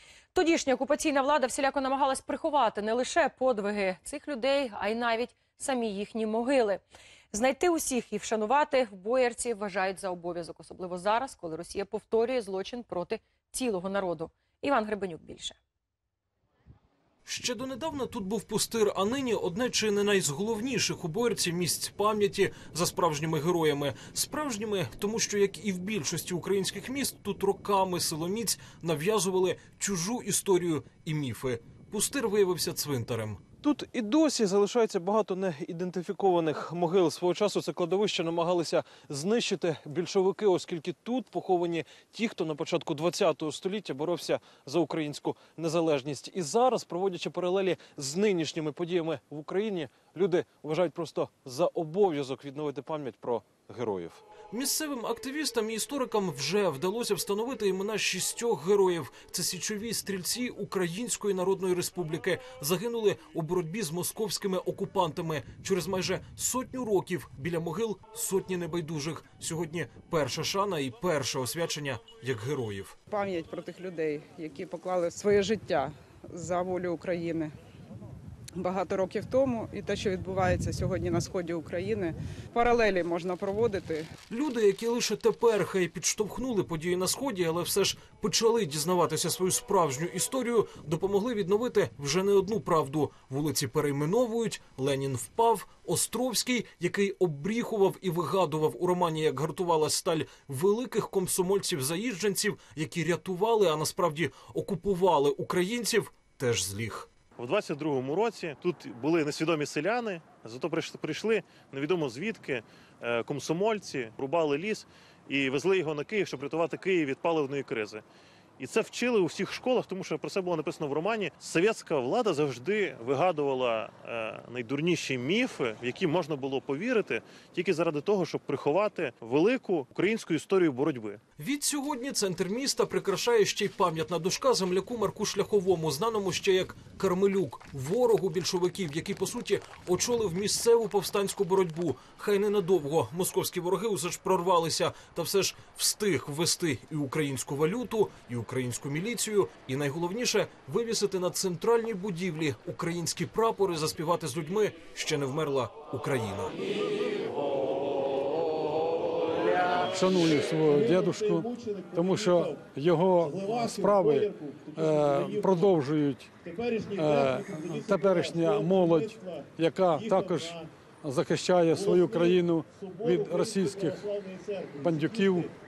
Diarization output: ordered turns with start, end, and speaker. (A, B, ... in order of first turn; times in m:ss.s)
0:00.3-0:15.6 A
0:17.2-1:12.9 B
1:13.1-1:17.5 C
1:18.5-1:24.1 C
1:24.3-1:47.1 B
1:47.4-1:58.0 D
1:58.6-2:11.2 D
2:11.4-2:36.5 B
2:39.8-2:46.3 E
2:40.7-2:42.5 D
2:43.2-2:45.7 D
2:46.4-2:50.6 D
2:47.0-2:54.1 E
2:51.7-2:55.5 D
2:54.8-2:55.5 E